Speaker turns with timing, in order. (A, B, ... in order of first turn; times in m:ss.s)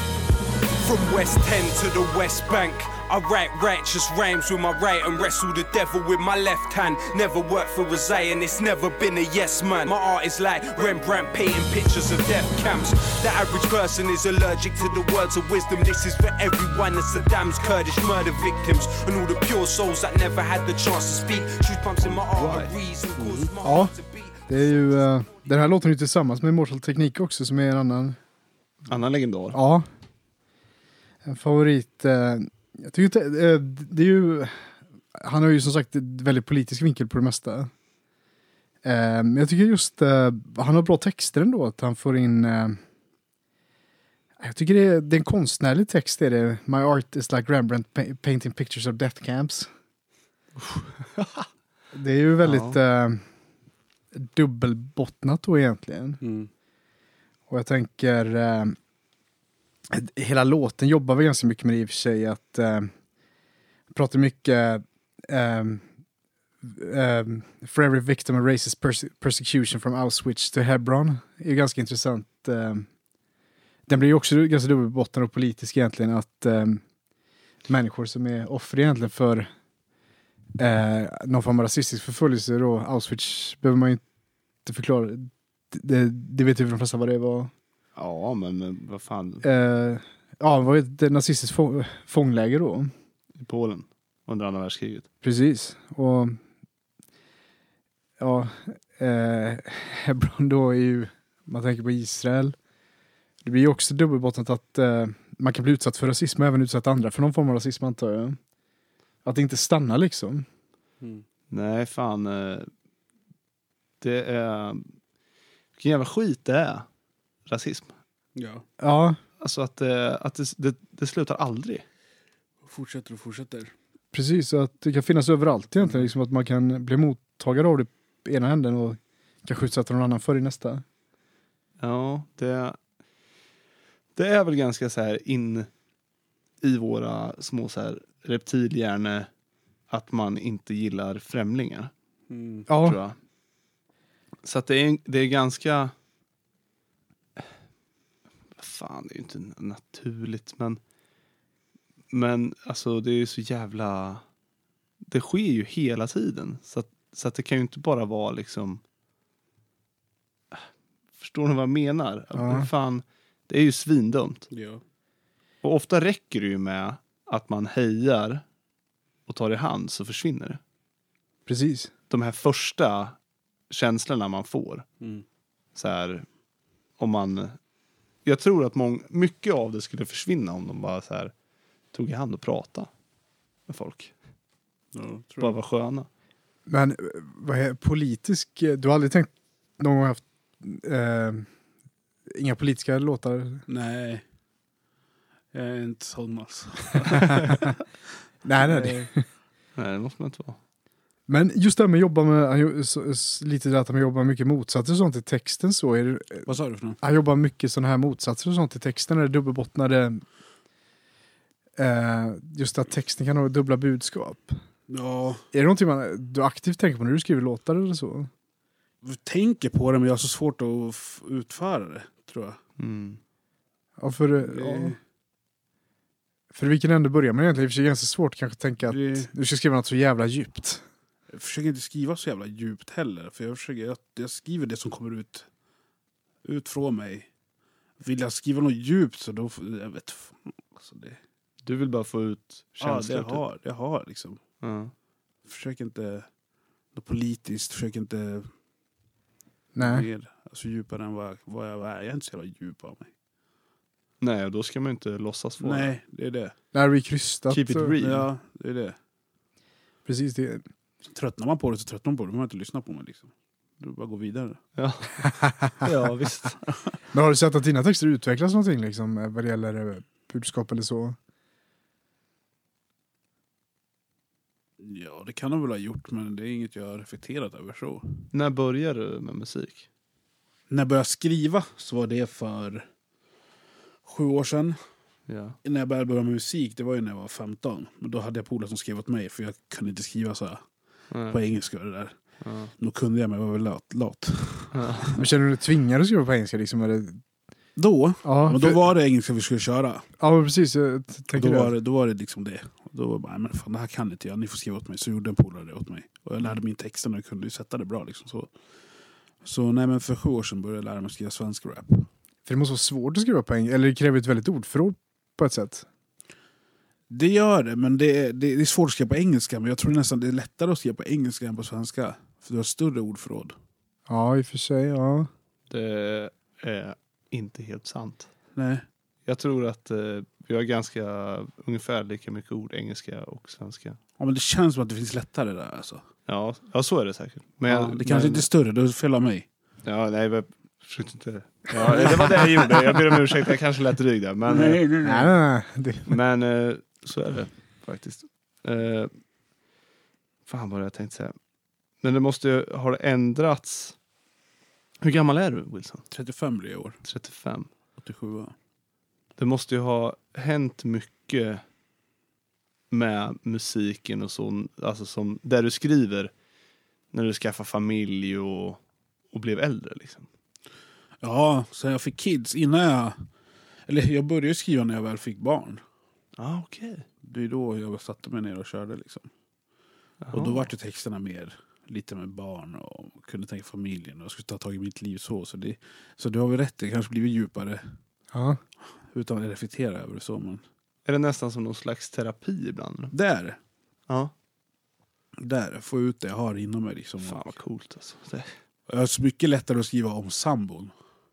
0:00.8-0:24.5 A
0:22.0-0:22.7 B
0:23.2-0:23.5 C
0:23.6-0:24.0 D
0:24.5-0:28.2 D
0:28.9-0:29.6 B
0:29.5-0:29.9 D
0:31.2-0:37.7 D
0:38.8-0:42.8 D
0:44.4-0:49.7 D
0:50.6-0:51.4 B
0:51.9-0:53.2 D
0:52.4-0:52.8 B
0:54.1-0:56.2 D
0:56.2-0:56.5 C
0:57.5-0:58.8 D
0:59.9-1:02.9 D
1:03.9-1:05.8 D
1:06.6-1:12.9 D
1:13.9-1:16.8 D
1:17.6-1:19.5 D
1:20.6-1:24.0 D
1:24.7-1:27.5 D
1:28.0-1:29.4 B
1:29.4-1:32.9 D
1:33.4-1:35.1 B
1:35.2-1:36.4 D
1:38.2-1:42.6 D
1:43.4-1:48.4 D
1:49.2-1:50.5 D
1:51.5-1:52.7 B
1:54.0-1:54.9 B
1:55.8-1:56.9 B
1:57.5-1:57.9 B
1:58.4-1:58.6 C
1:58.8-1:59.2 D
1:59.4-2:01.8 B
2:02.6-2:03.7 C
2:04.1-2:10.8 D
2:11.8-2:12.8 B
2:14.2-2:15.7 B
2:16.6-2:19.3 B
2:19.9-2:21.9 B
2:22.3-2:22.7 C
2:22.7-2:23.0 D
2:22.8-2:23.2 B
2:24.4-2:25.9 B
2:28.6-2:30.8 B
2:32.1-2:34.2 B
2:35.1-2:38.8 B
2:41.2-2:44.5 B
2:42.4-2:42.7 D
2:44.5-2:44.8 C
2:45.6-2:48.4 B
2:49.3-2:50.6 B
2:51.5-2:51.9 D
2:52.1-2:53.2 B
2:53.7-2:54.9 B
2:55.8-2:56.3 B
2:57.0-2:57.6 B
2:58.2-3:01.3 B
3:01.9-3:02.9 B
3:03.7-3:04.1 B
3:04.9-3:05.6 C
3:05.4-3:06.1 B
3:06.7-3:11.5 D
3:12.3-3:13.6 D
3:13.7-3:14.2 C
3:15.5-3:17.6 C
3:18.4-3:19.3 D
3:18.6-3:18.9 C
3:19.8-3:20.6 B
3:21.3-3:26.5 D
3:26.5-3:27.0 C
3:27.0-3:30.2 D
3:31.8-3:34.6 D
3:34.9-3:35.4 C
3:35.5-3:38.3 D
3:39.0-3:42.6 C
3:42.8-3:43.2 B
3:44.0-3:45.0 D
3:44.4-3:45.0 C
3:46.5-3:50.8 D
3:48.9-3:49.3 C
3:51.3-3:55.5 C
3:56.4-3:57.3 C
3:58.0-4:01.2 C
4:01.6-4:03.4 B
4:02.8-4:04.4 C
4:04.6-4:04.9 B
4:05.5-4:06.3 C
4:06.9-4:08.5 C
4:09.7-4:10.1 D
4:09.8-4:13.1 C
4:14.2-4:15.9 B
4:15.6-4:16.5 C
4:16.7-4:18.0 D
4:17.5-4:18.3 B
4:18.0-4:19.0 C
4:20.0-4:20.6 D
4:21.0-4:24.6 C
4:24.8-4:26.6 B
4:27.1-4:31.2 D
4:34.8-4:38.2 C
4:38.3-4:39.9 B
4:40.7-4:42.9 C
4:44.0-4:44.8 C
4:45.3-4:45.6 B
4:45.6-4:50.6 C
4:51.1-4:51.4 B
4:51.3-4:52.1 C
4:52.4-4:52.7 B
4:52.8-4:55.1 C
4:54.7-4:55.1 B
4:55.2-4:57.2 D
4:57.8-5:00.1 C
4:58.2-4:58.8 D
5:00.2-5:01.7 D
5:01.3-5:08.5 C
5:09.4-5:12.1 C
5:12.5-5:15.9 D
5:17.1-5:23.6 C
5:24.1-5:25.3 D
5:25.7-5:28.3 B
5:28.6-5:28.8 C
5:29.3-5:34.0 B
5:34.2-5:36.0 C
5:36.3-5:38.5 B
5:37.7-5:39.5 C
5:39.8-5:44.8 B
5:41.7-5:43.3 C
5:44.5-5:45.3 C
5:45.0-5:46.2 D
5:46.1-5:49.1 B
5:50.5-5:51.4 B
5:52.0-5:54.0 B
5:55.0-5:56.1 B
5:56.1-5:57.0 C
5:57.0-5:57.7 B
5:58.0-5:58.5 C
5:59.4-6:01.6 B
6:02.9-6:06.3 B
6:07.1-6:08.8 B
6:09.3-6:10.3 B
6:11.2-6:13.2 C
6:13.9-6:15.8 C
6:16.4-6:17.1 B
6:17.2-6:19.3 C
6:20.2-6:20.7 B
6:20.3-6:27.8 C
6:28.3-6:28.6 D
6:29.1-6:30.6 C
6:31.1-6:33.1 B
6:33.1-6:33.6 C
6:35.4-6:37.6 C
6:37.2-6:38.5 B
6:38.9-6:40.9 C